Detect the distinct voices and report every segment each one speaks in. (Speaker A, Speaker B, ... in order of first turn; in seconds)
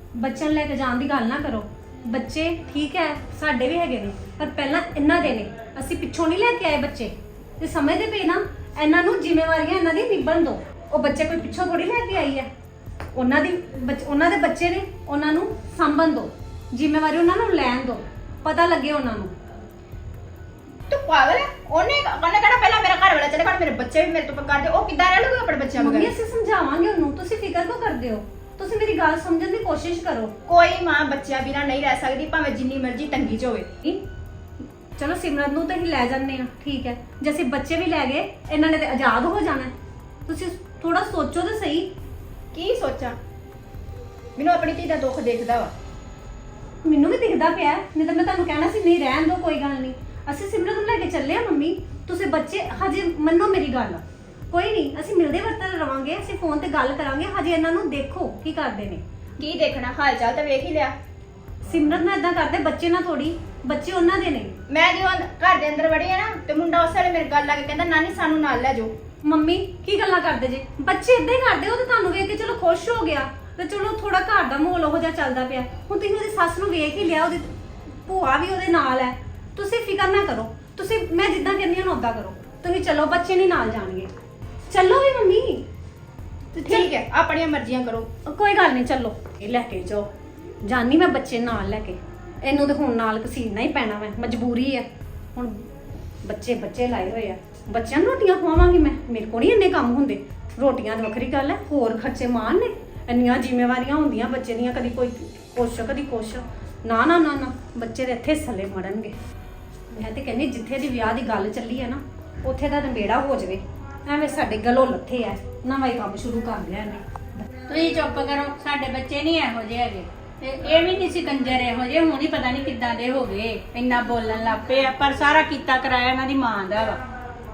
Speaker A: 0.1-12.5, 13.1-19.3, 25.8-30.3, 35.0-39.7, 40.3-41.9, 46.8-59.0, 61.6-64.5, 69.2-84.1, 84.7-85.7, 88.2-90.1, 90.6-95.6, 96.2-109.1, 109.9-117.5
Speaker B: 20.9-26.1, 30.5-33.7, 42.5-43.2, 44.4-45.7, 59.4-60.9, 64.7-68.9, 86.5-88.1
Speaker C: 117.7-127.0